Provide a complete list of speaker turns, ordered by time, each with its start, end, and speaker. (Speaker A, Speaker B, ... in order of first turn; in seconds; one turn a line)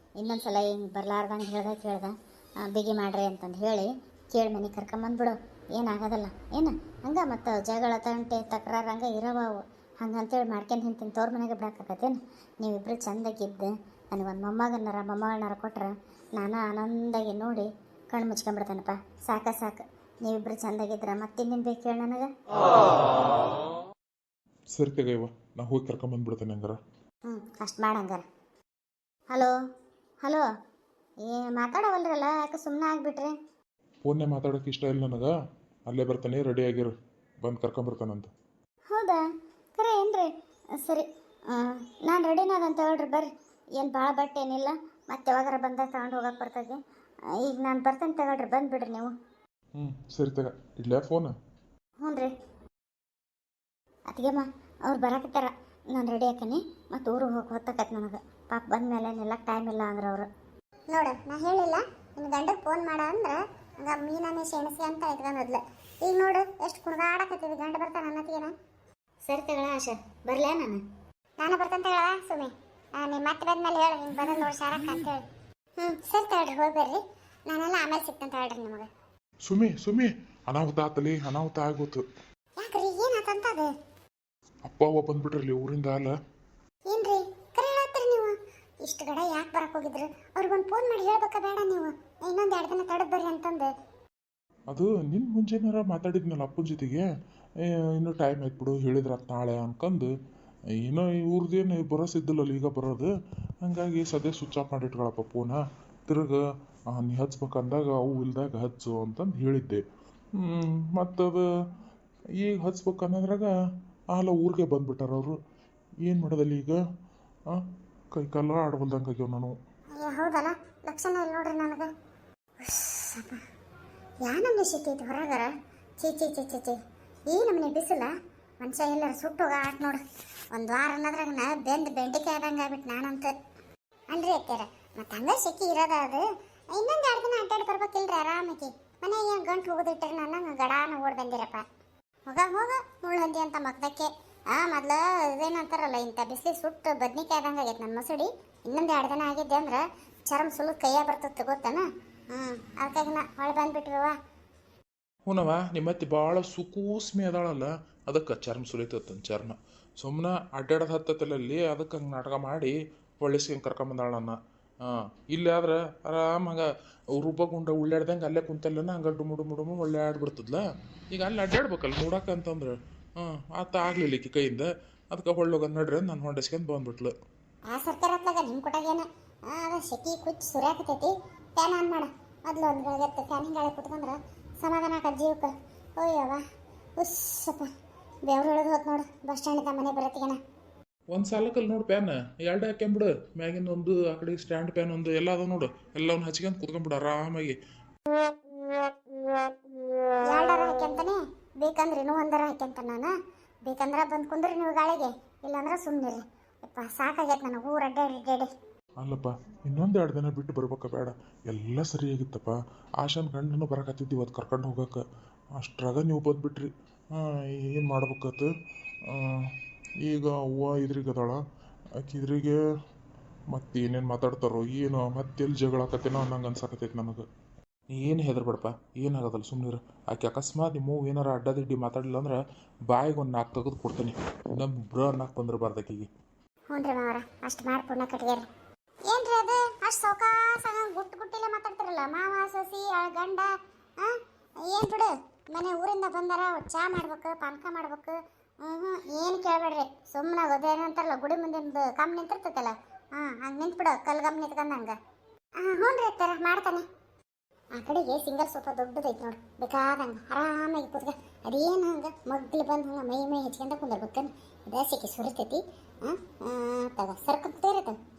Speaker A: 0.2-22.3
Speaker B: 24.7-26.8
Speaker A: 27.3-28.2
Speaker A: 31.3-33.4
Speaker B: 34.0-35.3
Speaker B: 35.9-38.3
Speaker A: 38.9-39.2
Speaker A: 39.8-40.3
Speaker A: 40.8-46.8
Speaker A: 47.4-49.1
Speaker B: 49.8-51.4
Speaker A: 52.0-52.3
Speaker A: 54.1-60.3
Speaker A: 60.9-61.2
Speaker C: 61.1-61.8
Speaker A: 62.2-63.0
Speaker C: 62.5-63.4
Speaker C: 64.0-64.8
Speaker A: 64.7-65.6
Speaker C: 66.1-67.8
Speaker A: 66.1-68.5
Speaker A: 69.2-70.8
Speaker C: 71.4-72.5
Speaker C: 73.0-75.2
Speaker A: 74.1-74.6
Speaker C: 75.8-78.9
Speaker B: 79.5-82.0
Speaker C: 82.6-83.7
Speaker B: 84.7-86.1
Speaker C: 86.9-93.7
Speaker B: 94.7-100.1
Speaker B: 100.8-109.8
Speaker B: 110.3-111.5
Speaker B: 112.4-113.5
Speaker B: 114.1-115.4
Speaker B: 116.0-116.8
Speaker B: 117.5-119.6
Speaker C: 120.0-121.9
Speaker C: 122.6-123.4
Speaker C: 124.2-133.3
Speaker C: 134.1-141.7
Speaker C: 142.3-154.2
Speaker B: 155.3-177.1
Speaker C: 177.7-186.4
Speaker C: 187.0-187.7
Speaker C: 188.3-190.4
Speaker B: 191.1-197.6
Speaker C: 200.3-203.1
Speaker C: 203.7-208.5
Speaker B: 209.0-215.0
Speaker B: 215.6-218.5
Speaker B: 219.1-221.4
Speaker B: 222.0-222.6
Speaker B: 223.5-227.2
Speaker B: 227.9-236.1
Speaker C: 236.7-238.5
Speaker C: 239.1-255.0
Speaker C: 255.6-256.9
Speaker C: 257.8-268.0